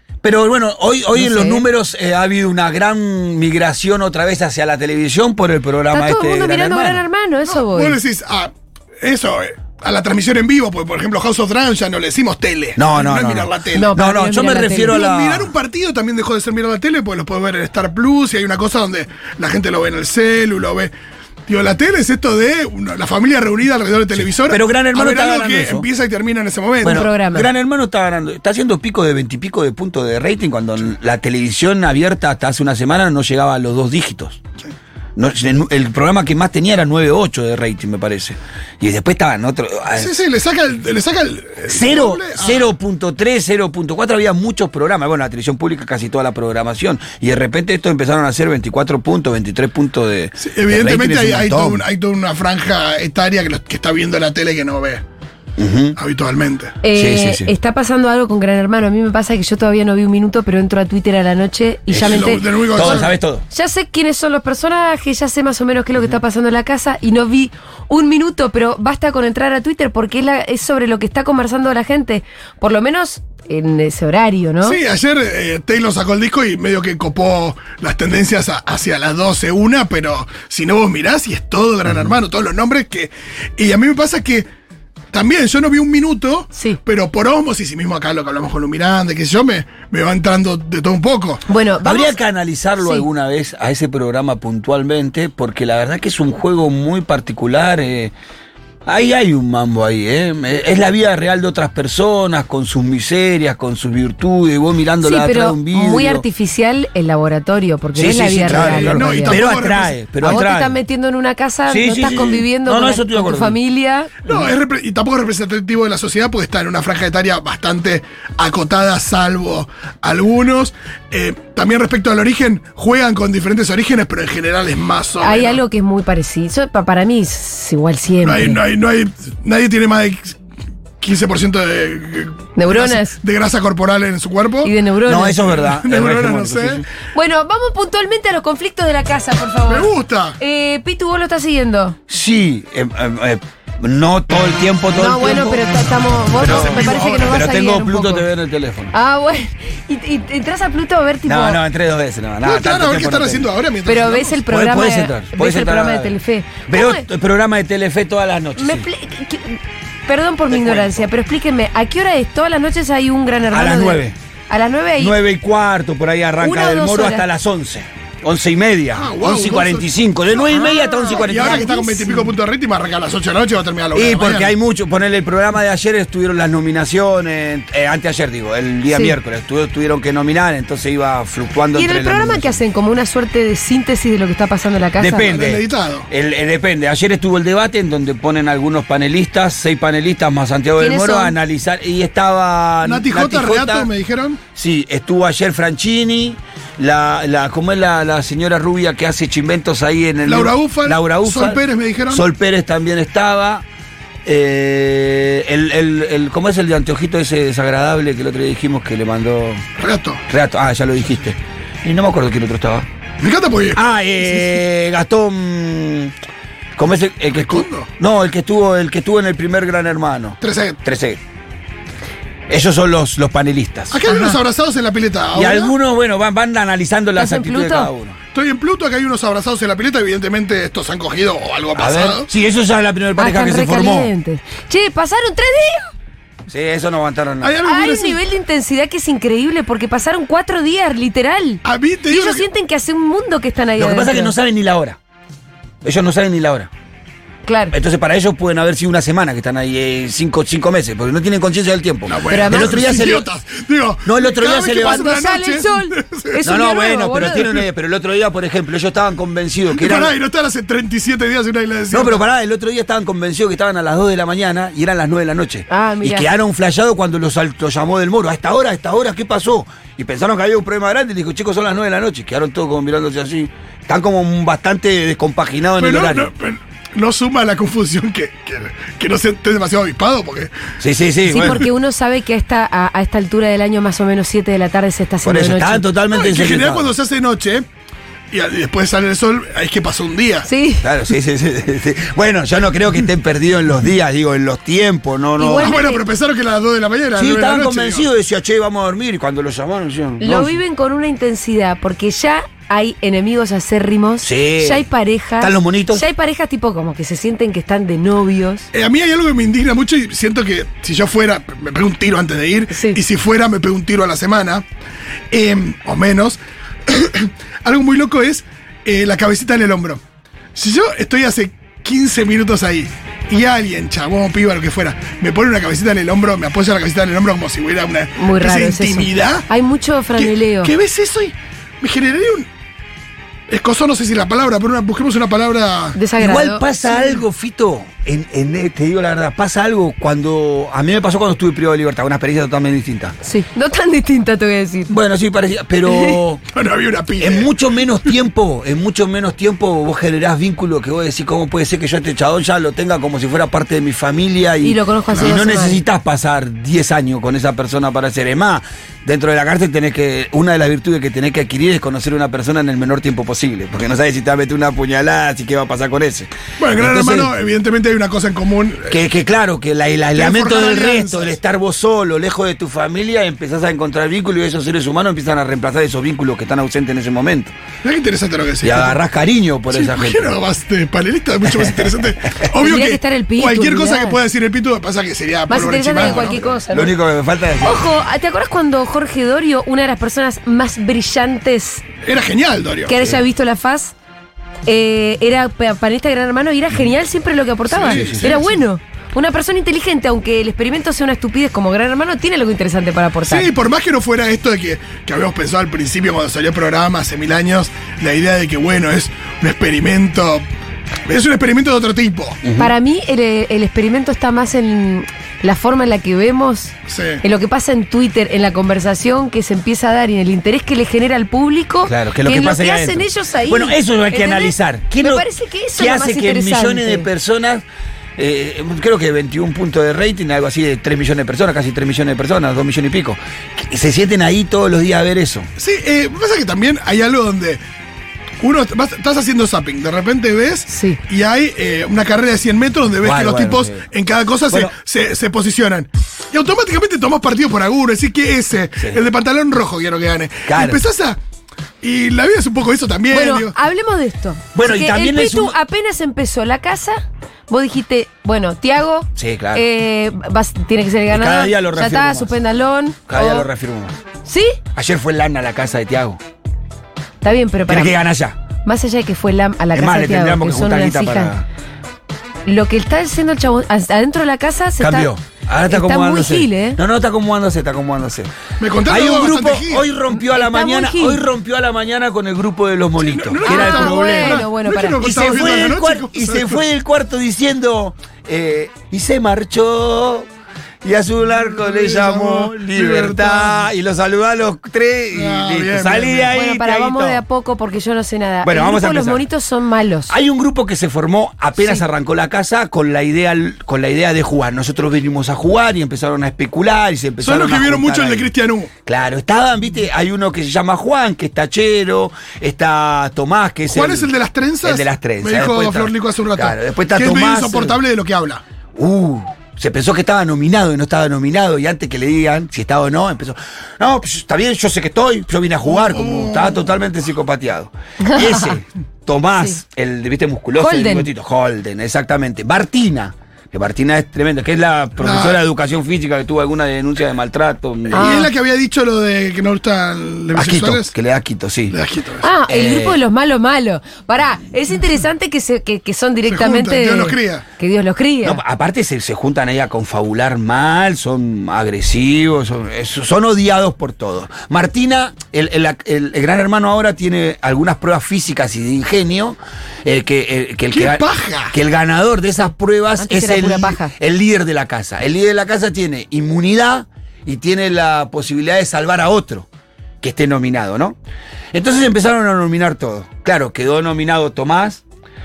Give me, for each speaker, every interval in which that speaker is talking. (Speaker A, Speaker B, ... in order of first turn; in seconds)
Speaker A: 0.2-7.0, 12.8-15.5, 24.2-25.9, 26.8-34.4, 35.1-40.1, 41.7-51.8, 55.6-56.0, 56.9-57.5, 61.9-63.4, 91.8-98.1, 98.8-106.2, 108.0-110.8, 111.7-113.6, 114.3-114.5, 135.1-136.8, 142.1-145.7, 146.4-148.9, 151.2-153.5, 154.5-156.2, 156.7-158.9, 160.5-161.1, 163.5-164.2, 165.0-171.7, 173.9-182.6, 185.0-193.9, 194.5-203.6, 204.2-209.6, 210.3-212.8, 213.7-216.1, 216.8-221.2, 222.5-224.0, 225.3-228.2, 231.8-234.1, 236.5-237.6, 243.8-245.0, 245.8-246.7, 247.7-253.3, 254.0-255.2, 256.4-260.1, 261.9-276.3, 280.8-281.6, 285.2-286.9, 290.8-295.8, 297.1-300.6, 304.2-304.9, 305.4-306.0, 336.2-343.1, 344.9-346.4, 347.2-367.3, 368.9-377.5, 378.6-380.3, 381.4-381.9, 386.0-387.8, 397.8-398.3, 412.4-412.7, 421.8-427.6, 428.2-435.5, 443.0-443.8, 450.4-450.8, 454.5-455.6, 459.1-459.6, 461.1-462.3, 463.1-463.9, 464.7-466.2, 467.7-468.4, 469.7-471.4, 474.8-478.3, 478.9-484.4, 485.0-490.2, 490.8-497.2, 498.4-499.2, 500.1-508.3, 508.8-514.1, 514.6-517.8, 518.8-538.3, 540.3-541.8, 542.5-543.0, 548.2-569.5, 570.0-571.0, 571.5-574.8
Speaker B: 1.1-1.6, 5.9-8.0, 13.7-15.0, 26.8-27.5, 56.8-74.8, 91.5-92.2, 92.8-93.0, 105.0-109.5, 110.2-114.1, 125.2-128.6, 132.6-133.2, 134.6-135.4, 137.1-142.0, 144.9-148.2, 148.9-151.6, 153.8-157.0, 158.6-165.2, 166.4-167.2, 170.4-172.3, 178.9-179.2, 181.7-185.3, 190.8-191.3, 224.1-224.4, 227.2-227.9, 233.2-235.9, 237.6-244.3, 247.4-247.7, 252.3-252.9, 254.7-257.6, 265.7-266.3, 281.3-285.8, 290.4-290.9, 295.4-296.0, 300.2-308.7, 312.7-313.0, 328.2-330.7, 335.9-336.6, 343.2-344.9, 345.8-346.2, 354.6-355.8, 382.6-384.2, 385.5-386.9, 387.6-391.8, 392.9-393.9, 394.6-403.5, 412.6-427.1, 440.7-441.0, 453.1-463.5, 464.2-464.6, 467.2-468.0, 468.6-471.3, 472.4-475.1, 475.7-476.8, 480.1-481.2, 483.4-485.1, 496.3-500.1, 501.6-501.8, 528.0-528.5, 530.6-531.1, 537.9-538.3, 542.2-548.4, 563.0-563.9
Speaker C: 7.5-13.9, 14.9-20.9, 21.5-27.1, 40.0-42.7, 50.4-55.0, 56.0-56.8, 62.0-63.1, 74.6-84.5, 85.1-91.4, 108.5-110.4, 114.2-125.6, 128.2-130.4, 131.0-134.7, 135.5-136.8, 139.7-140.4, 146.4-147.4, 152.4-154.4, 168.9-169.9, 171.1-174.5, 185.2-186.1, 192.8-194.4, 200.2-202.2, 209.8-210.2, 213.2-214.4, 217.3-217.9, 220.4-220.8, 223.9-225.7, 228.3-232.3, 237.4-238.2, 241.6-242.4, 252.1-256.4, 257.2-257.6, 259.7-262.2, 275.8-280.5, 286.1-287.6, 288.3-290.5, 295.6-298.1, 308.7-314.6, 315.3-320.0, 320.5-329.5, 330.2-332.5, 333.5-336.0, 346.5-347.5, 355.1-355.4, 366.6-369.0, 370.1-371.4, 377.8-379.0, 379.7-386.5, 392.0-393.0, 397.7-398.6, 403.3-410.4, 411.1-412.4, 416.9-417.2, 435.6-437.6, 438.4-451.2, 451.8-453.5, 478.6-479.9, 483.0-486.6, 491.5-493.6, 495.1-496.3, 507.2-508.7, 513.7-518.4, 525.7-526.6, 535.0-535.4, 537.9-540.9, 541.7-542.3, 546.3-547.4, 560.7-561.5